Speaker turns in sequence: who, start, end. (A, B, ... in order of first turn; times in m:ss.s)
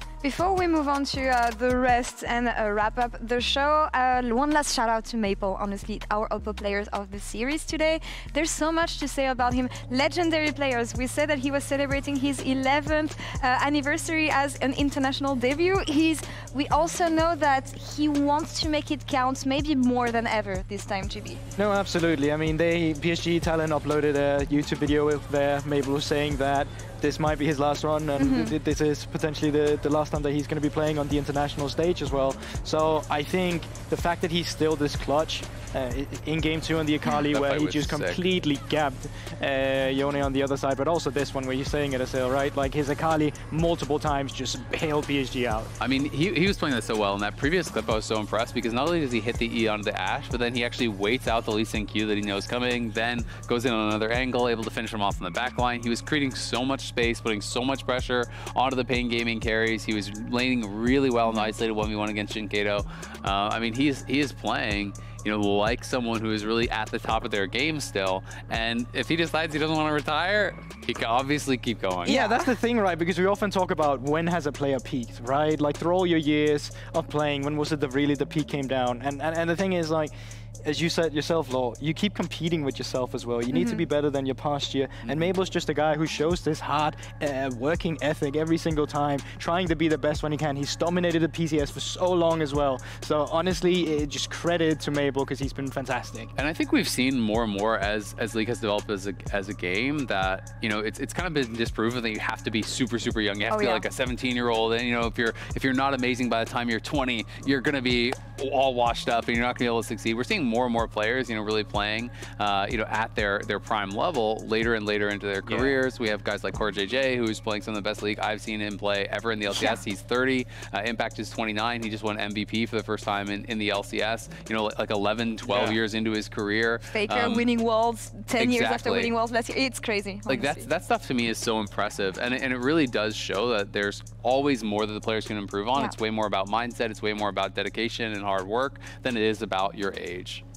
0:00.2-0:21.4 A
0:21.6-0:45.7 B
0:28.2-0:28.5 A
0:37.1-0:38.2 C
0:45.8-1:12.2 C
1:01.2-1:01.5 A
1:12.0-1:12.5 A
1:12.0-1:20.1 B
1:20.6-1:36.3 B
1:23.5-1:23.8 A
1:36.4-2:07.5 C
1:43.5-1:43.8 A
1:59.5-1:59.8 A
2:06.9-2:10.7 A
2:08.4-2:09.1 C
2:10.3-2:20.4 C